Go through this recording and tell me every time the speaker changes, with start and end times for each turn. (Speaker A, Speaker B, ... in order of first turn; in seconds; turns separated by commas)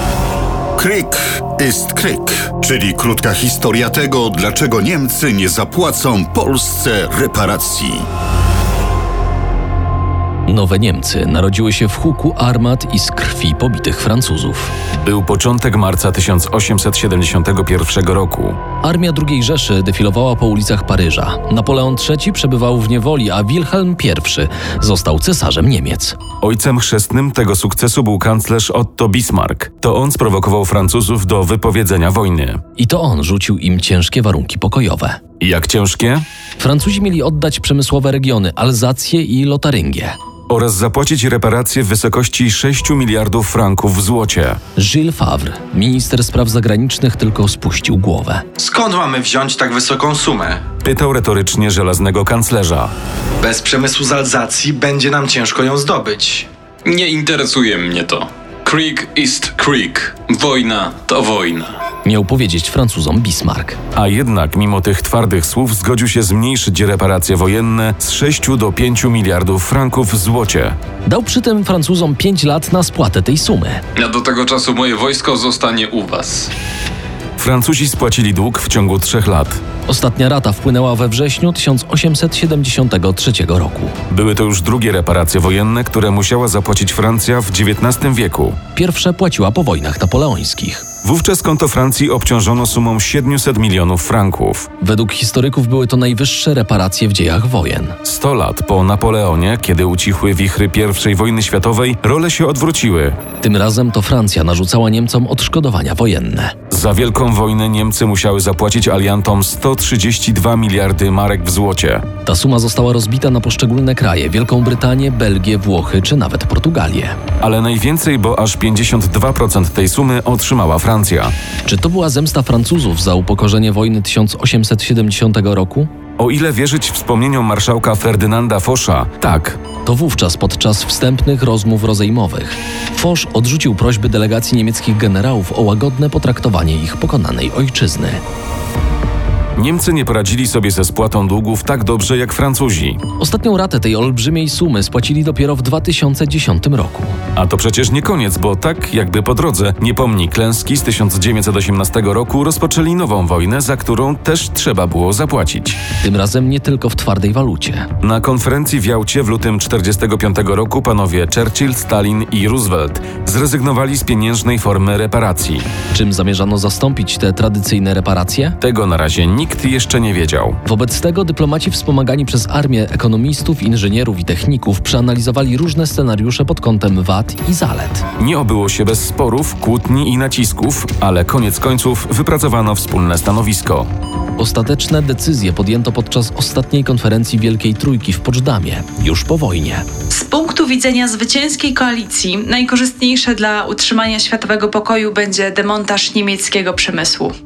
Speaker A: 0.8-8.1, Speaker B: 10.5-14.7, Speaker C: 14.9-18.6, Speaker B: 18.8-26.2, Speaker C: 26.4-32.6, Speaker B: 32.8-35.2, Speaker C: 35.4-36.2, Speaker B: 36.6-40.2, Speaker C: 40.5-44.6, Speaker B: 44.8-48.4, Speaker D: 48.5-50.6, Speaker C: 50.8-52.9, Speaker D: 53.4-56.5, Speaker E: 56.8-61.8, Speaker B: 62.0-63.8, Speaker C: 63.9-70.8, Speaker B: 71.0-73.8, Speaker E: 74.0-76.5, Speaker C: 77.4-79.6, Speaker B: 79.9-83.9, Speaker C: 84.1-88.6, Speaker B: 88.7-90.8, Speaker C: 91.0-94.7, Speaker B: 94.8-98.0, Speaker C: 98.0-103.2, Speaker B: 103.4-106.5, Speaker C: 106.7-112.0, Speaker B: 112.2-117.2, Speaker C: 117.4-121.3, Speaker B: 121.7-125.9, Speaker C: 126.2-129.6, Speaker B: 129.8-138.2, Speaker C: 139.6-143.0, Speaker B: 143.2-147.2, Speaker C: 147.3-155.8, Speaker B: 156.0-157.9, Speaker C: 158.0-165.7, Speaker B: 165.9-168.6, Speaker C: 168.6-170.6, Speaker B: 170.6-178.0, Speaker C: 178.2-183.9, Speaker B: 184.4-189.8, Speaker F: 190.1-197.3